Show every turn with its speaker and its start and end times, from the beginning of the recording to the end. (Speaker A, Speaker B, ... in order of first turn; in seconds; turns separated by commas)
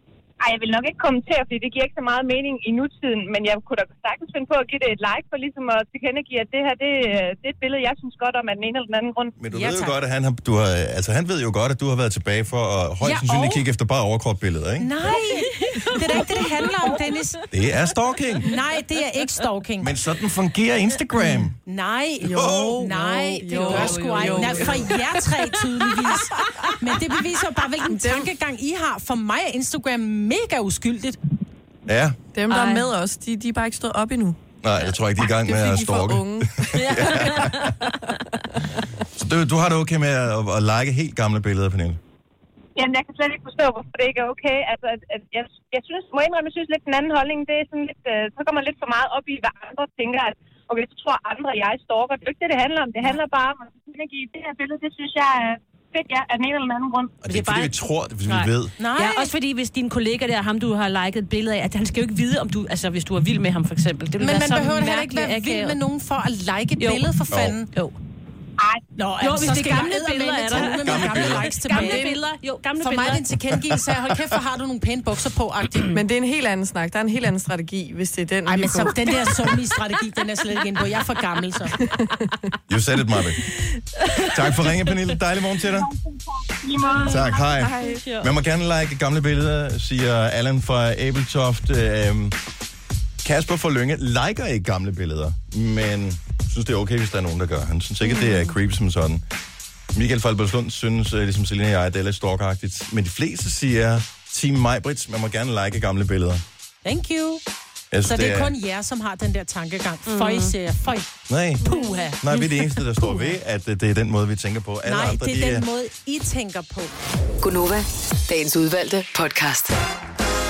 Speaker A: 0.4-9.3, Speaker B: 9.4-14.9, Speaker C: 9.5-10.0, Speaker C: 13.0-13.6, Speaker C: 14.8-17.4, Speaker D: 15.5-16.9, Speaker B: 17.5-18.5, Speaker C: 18.4-19.9, Speaker B: 19.8-21.6, Speaker C: 21.6-31.2, Speaker E: 22.2-25.0, Speaker B: 22.3-22.9, Speaker D: 23.5-24.9, Speaker E: 27.9-28.3, Speaker B: 31.9-32.2, Speaker E: 32.3-34.4, Speaker D: 32.5-32.9, Speaker B: 34.6-37.7, Speaker E: 35.3-37.5, Speaker D: 36.7-38.1, Speaker B: 39.1-42.0, Speaker A: 42.8-57.2, Speaker B: 57.2-58.7, Speaker D: 57.3-57.7, Speaker D: 58.3-65.8, Speaker C: 58.8-59.3, Speaker C: 64.2-67.7, Speaker D: 66.8-67.1, Speaker B: 67.3-67.6, Speaker C: 69.0-72.2, Speaker D: 69.2-73.3, Speaker B: 70.5-71.5, Speaker E: 71.7-72.1, Speaker C: 72.8-76.0, Speaker E: 75.9-79.4, Speaker C: 78.5-81.8, Speaker B: 82.7-83.5, Speaker B: 84.2-85.9, Speaker A: 86.0-86.9, Speaker B: 86.9-92.4, Speaker D: 87.0-88.3, Speaker E: 87.3-88.0, Speaker B: 93.2-99.2, Speaker D: 98.1-98.4, Speaker B: 99.9-106.4, Speaker C: 106.8-107.4, Speaker B: 107.9-108.5, Speaker C: 108.0-111.1, Speaker D: 110.1-110.5, Speaker B: 111.3-111.7, Speaker C: 111.6-112.4, Speaker B: 112.2-115.7, Speaker C: 114.8-117.0, Speaker F: 117.4-119.8